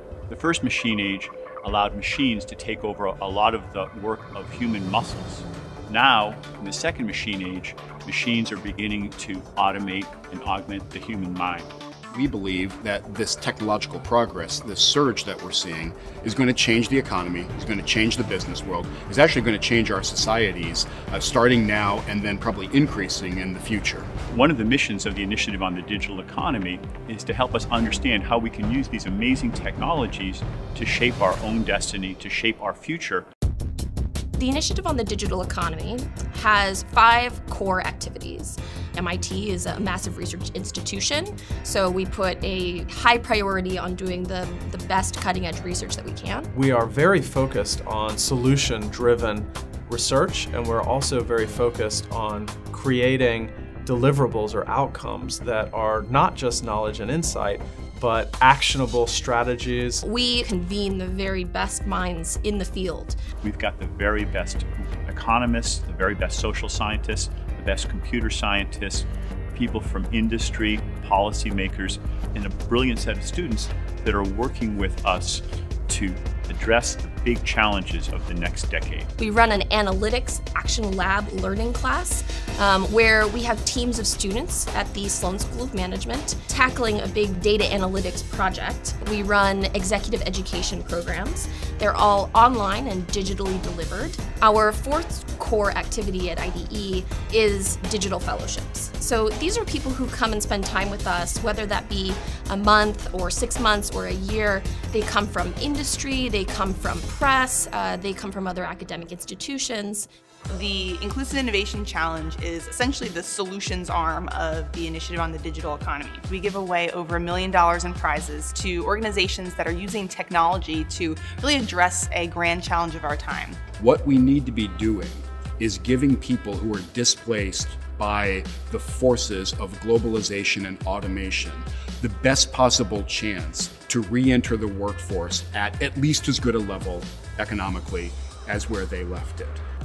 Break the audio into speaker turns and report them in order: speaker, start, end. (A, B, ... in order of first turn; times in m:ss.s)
0:00.3-0:11.7 A
0:12.1-0:24.1 B
0:24.3-0:33.2 A
0:34.4-0:46.5 C
0:46.5-1:00.0 D
1:00.0-1:03.2 C
1:03.4-1:19.1 A
1:19.2-1:50.1 C
1:50.5-2:03.6 E
2:03.8-2:19.6 B